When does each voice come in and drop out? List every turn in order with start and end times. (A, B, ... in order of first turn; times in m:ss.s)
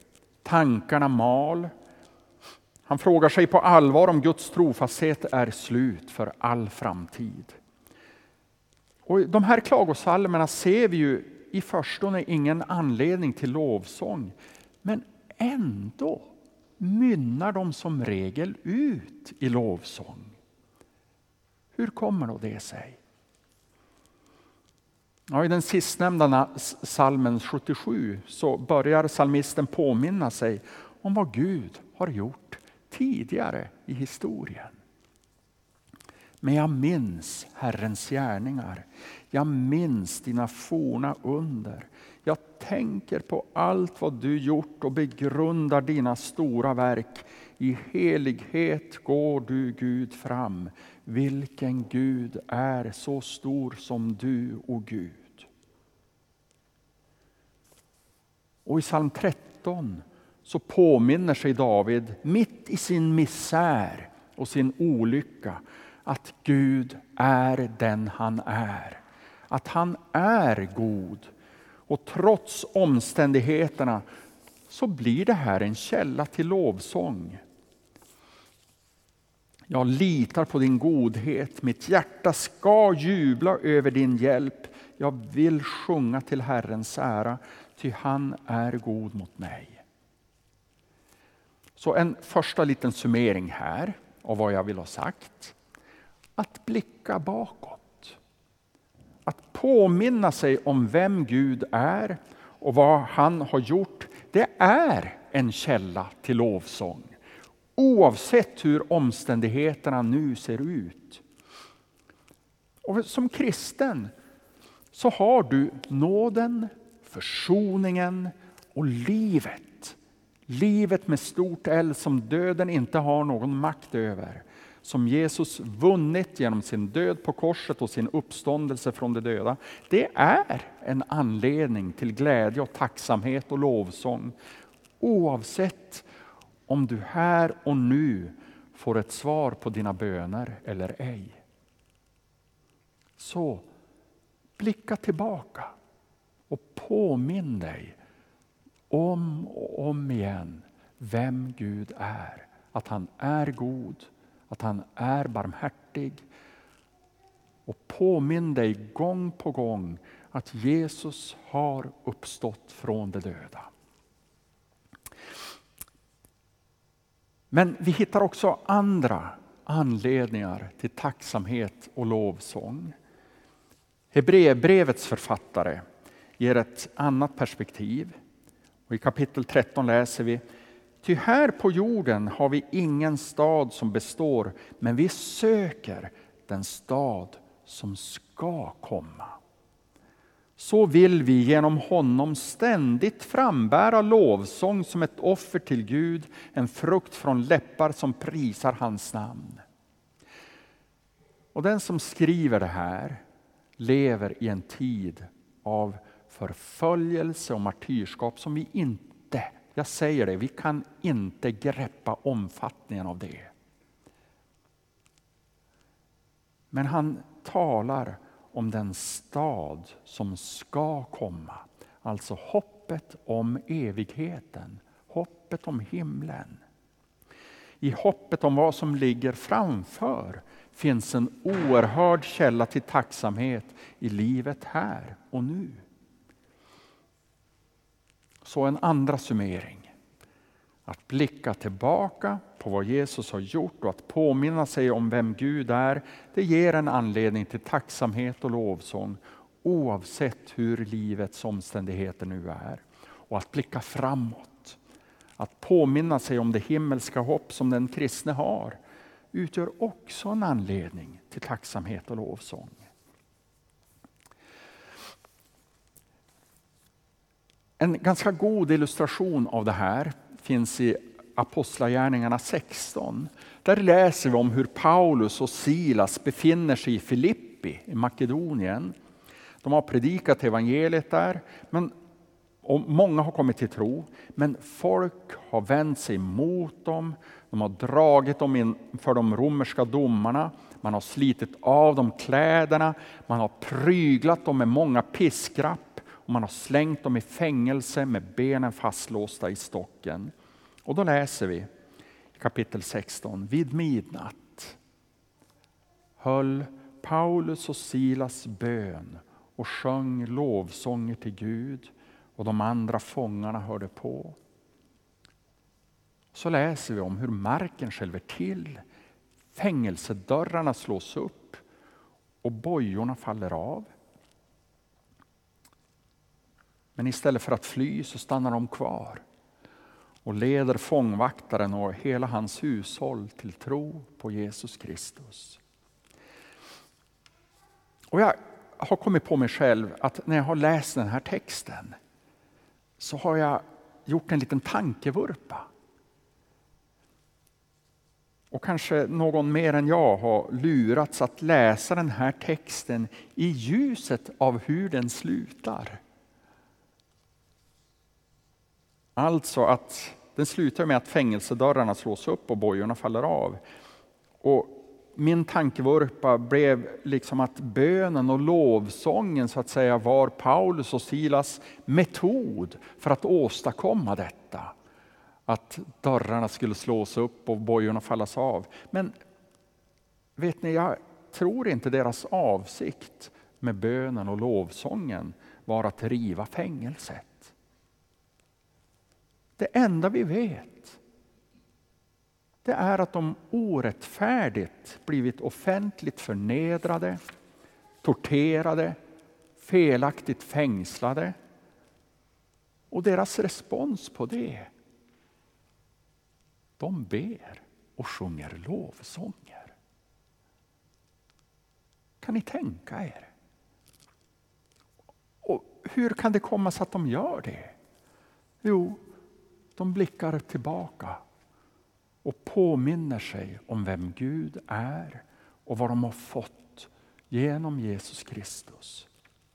0:00.4-0:01.7 A
0:02.9-0:07.6 A
0:09.1-0:20.4 A
0:21.8-0:23.0 A
0:25.3-0:34.8 A
0:36.4-0:55.5 A
0:58.7-1:11.3 A
1:11.9-1:14.1 A
1:14.7-1:17.4 A
1:19.7-1:29.8 A
1:31.8-1:35.6 A
1:36.4-1:38.2 A
1:39.3-1:47.2 A
1:47.8-1:51.2 A
1:52.8-1:54.1 A
1:54.9-2:00.0 A
2:00.5-2:14.4 A
2:15.0-2:16.1 A
2:16.7-2:21.4 A
2:23.2-2:23.7 A
2:24.6-2:25.8 A
2:26.5-2:28.0 A
2:28.9-2:36.2 A
2:37.7-2:43.7 A
2:47.5-2:53.0 A
2:54.1-2:55.8 A
2:56.4-2:58.2 A
2:58.9-3:00.4 A
3:01.0-3:09.4 A
3:10.6-3:19.6 A
3:21.5-3:23.2 A
3:23.8-3:33.5 A
3:36.7-3:46.6 A
3:47.8-3:55.8 A
3:58.4-3:59.9 A
4:00.9-4:14.8 A
4:15.4-4:18.8 A
4:19.3-4:22.8 A
4:27.8-4:39.0 A
4:39.6-4:41.9 A
4:42.6-5:00.3 A
5:00.9-5:01.7 A
5:02.4-5:04.8 A
5:06.2-5:14.4 A
5:16.3-5:18.8 A
5:19.5-5:21.6 A
5:22.4-5:23.9 A
5:27.0-5:29.2 A
5:30.2-5:35.6 A
5:38.1-5:42.0 A
5:43.0-5:45.7 A
5:48.5-5:56.0 A
5:59.2-6:03.6 A
6:04.4-6:14.7 A
6:15.5-6:19.1 A
6:20.4-6:27.5 A
6:29.6-6:31.0 A
6:32.6-6:37.2 A
6:38.0-6:39.0 A
6:39.6-6:41.4 A
6:42.9-6:44.7 A
6:46.8-6:49.8 A
6:52.2-6:53.3 A
6:55.4-6:57.8 A
6:58.6-6:59.0 A
6:59.8-7:01.2 A
7:02.2-7:09.1 A